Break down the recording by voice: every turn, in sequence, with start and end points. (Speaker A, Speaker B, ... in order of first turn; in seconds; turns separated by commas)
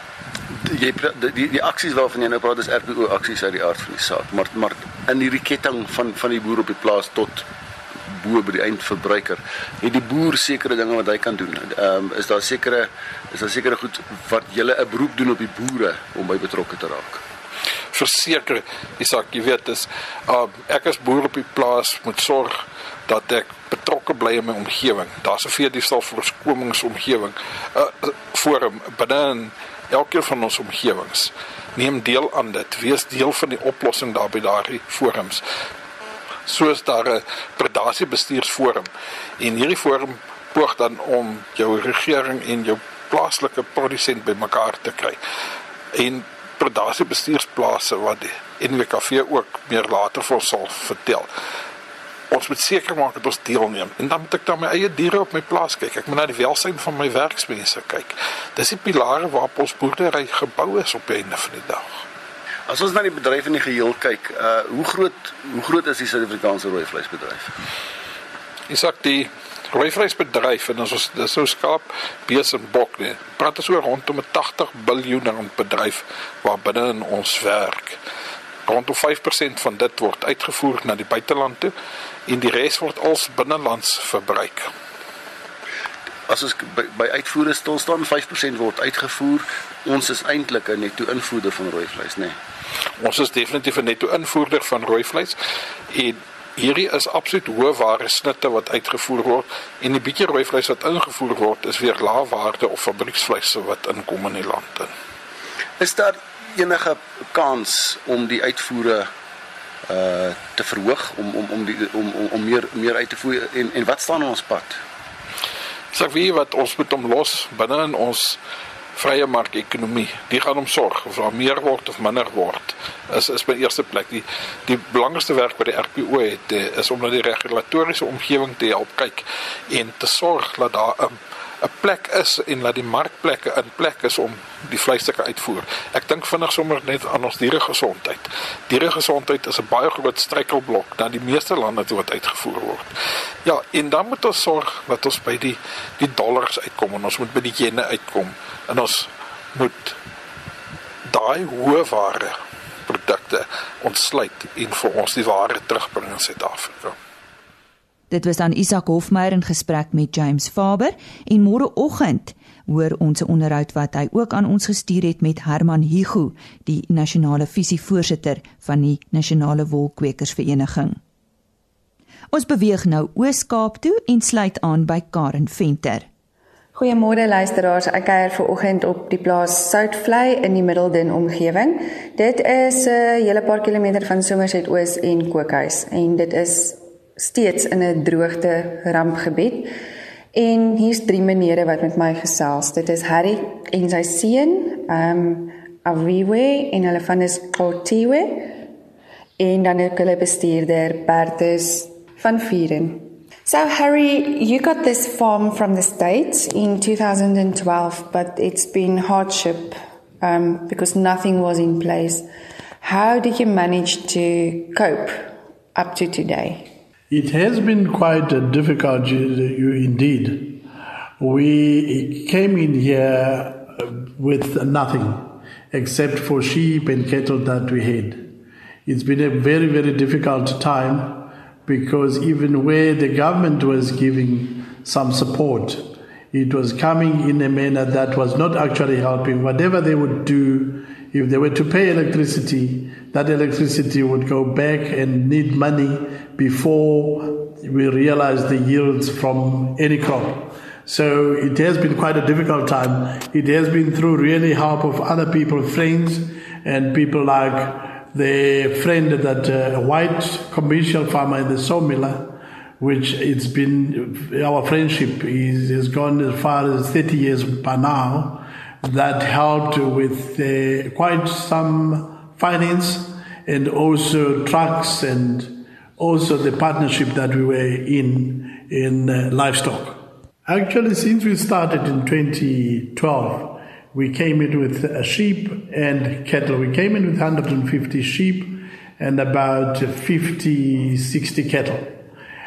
Speaker A: 0.6-7.5, Speaker A: 8.1-17.2, Speaker B: 17.9-35.4, Speaker B: 36.5-38.9, Speaker B: 39.4-45.2, Speaker B: 45.9-51.3, Speaker B: 52.3-62.0, Speaker A: 62.7-67.5, Speaker B: 68.7-78.0, Speaker B: 78.7-81.7, Speaker B: 82.3-84.7, Speaker A: 86.3-92.4, Speaker B: 93.0-95.4, Speaker B: 95.9-104.9, Speaker A: 105.8-109.1, Speaker A: 109.9-114.8, Speaker B: 115.9-118.4, Speaker B: 119.0-142.9, Speaker B: 143.4-150.0, Speaker B: 151.1-157.0, Speaker C: 158.1-171.0, Speaker C: 172.3-176.1, Speaker D: 176.8-189.7, Speaker D: 190.3-198.7, Speaker D: 199.4-212.3, Speaker D: 212.8-216.8, Speaker E: 217.1-220.6, Speaker E: 221.2-292.0